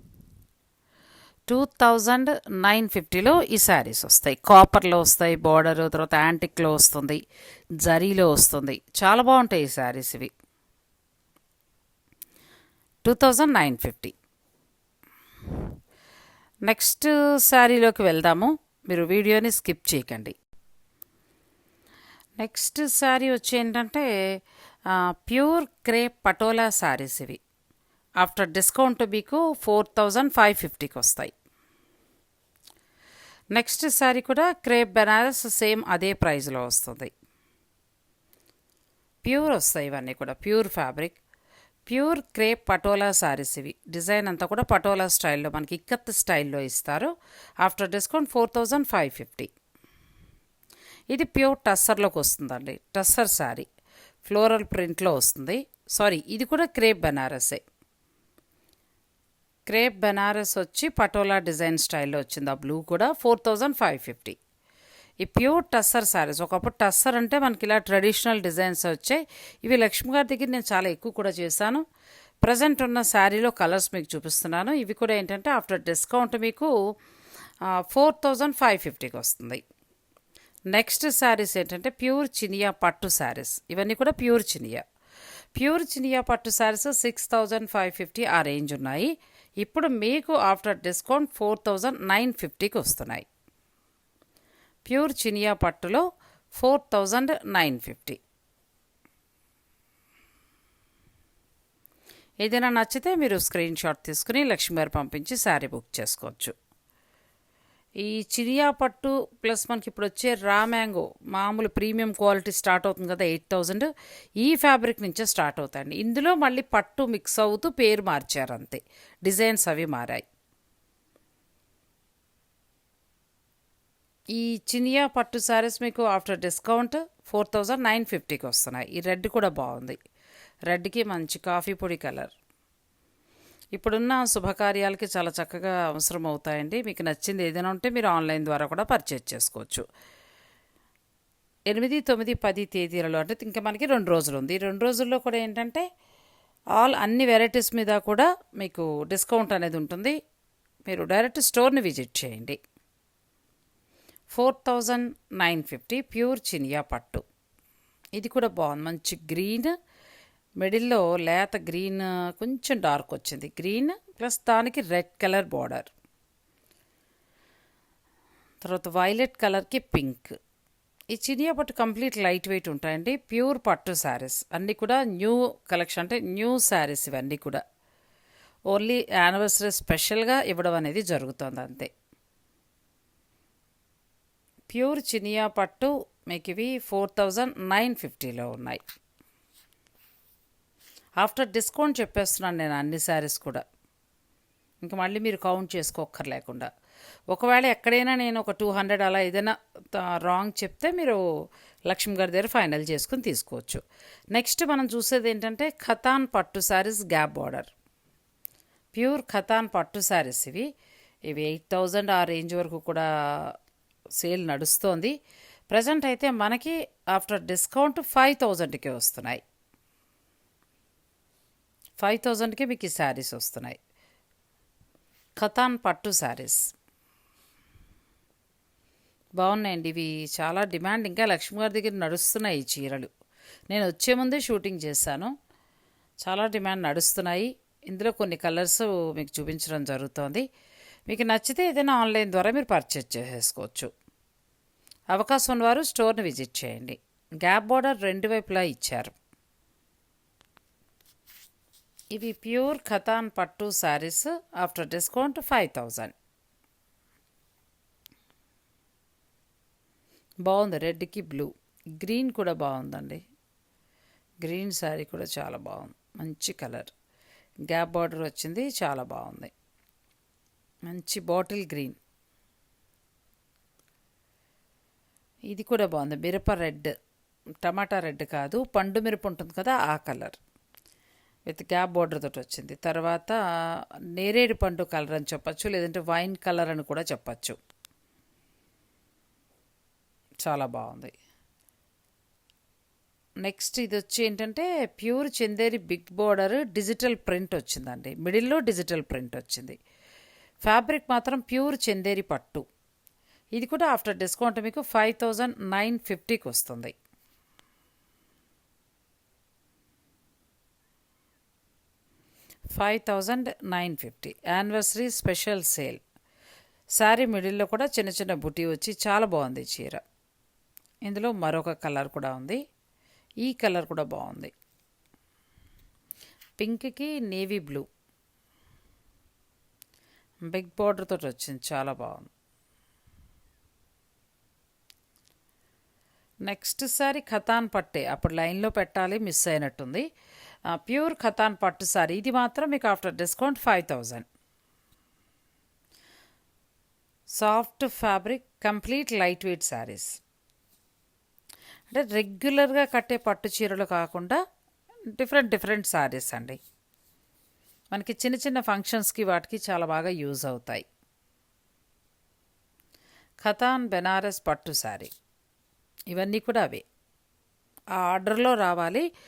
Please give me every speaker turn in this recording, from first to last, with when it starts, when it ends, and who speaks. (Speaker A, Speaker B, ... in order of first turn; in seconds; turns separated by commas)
Speaker A: 1.5-7.2, Speaker A: 7.8-10.3, Speaker A: 13.1-14.1, Speaker A: 16.7-20.4, Speaker A: 22.4-24.1, Speaker A: 24.9-27.4, Speaker A: 28.2-31.3, Speaker A: 33.5-37.1, Speaker A: 39.2-41.2, Speaker A: 41.9-47.1, Speaker A: 47.6-49.5, Speaker A: 51.1-53.7, Speaker A: 54.2-57.6, Speaker A: 59.7-64.4, Speaker A: 65.2-71.8, Speaker A: 72.4-76.7, Speaker A: 77.8-79.6, Speaker A: 80.7-84.8, Speaker A: 85.6-93.3, Speaker A: 94.9-96.0, Speaker A: 96.5-98.2, Speaker A: 102.4-106.5, Speaker A: 108.0-113.9, Speaker A: 114.4-120.2, Speaker A: 124.3-130.0, Speaker A: 130.7-132.3, Speaker A: 133.8-139.8, Speaker A: 141.7-145.8, Speaker A: 146.8-150.2, Speaker A: 150.9-152.6, Speaker A: 154.3-157.2, Speaker A: 158.2-159.7, Speaker A: 160.6-165.9, Speaker A: 168.6-170.4, Speaker A: 171.1-177.6, Speaker A: 178.7-181.9, Speaker A: 184.7-188.8, Speaker A: 191.2-193.6, Speaker A: 194.8-196.7, Speaker A: 197.3-201.2, Speaker A: 201.9-207.7, Speaker A: 208.9-210.7, Speaker A: 211.3-213.5, Speaker A: 214.2-215.1, Speaker A: 215.7-219.4, Speaker A: 222.0-223.8, Speaker A: 225.4-226.6, Speaker A: 229.4-233.1, Speaker A: 233.7-235.3, Speaker A: 236.2-240.4, Speaker A: 241.1-243.9, Speaker A: 245.1-249.2, Speaker A: 252.1-256.1, Speaker A: 260.5-261.5, Speaker A: 262.0-263.2, Speaker A: 264.4-266.9, Speaker A: 267.7-269.5, Speaker A: 270.9-272.0, Speaker A: 275.5-276.9, Speaker A: 277.6-280.4, Speaker A: 281.5-283.4, Speaker A: 284.2-287.6, Speaker A: 290.4-291.1, Speaker A: 293.4-299.8, Speaker A: 300.6-302.6, Speaker A: 303.6-306.9, Speaker A: 312.8-316.0, Speaker A: 317.0-320.0, Speaker A: 321.1-322.6, Speaker A: 323.4-324.5, Speaker A: 326.6-327.9, Speaker A: 330.5-332.3, Speaker A: 336.5-340.1, Speaker A: 340.8-344.2, Speaker A: 347.4-350.2, Speaker A: 351.9-354.4, Speaker A: 355.1-356.6, Speaker A: 357.9-360.9, Speaker A: 363.4-365.1, Speaker A: 366.1-366.9, Speaker A: 368.0-369.1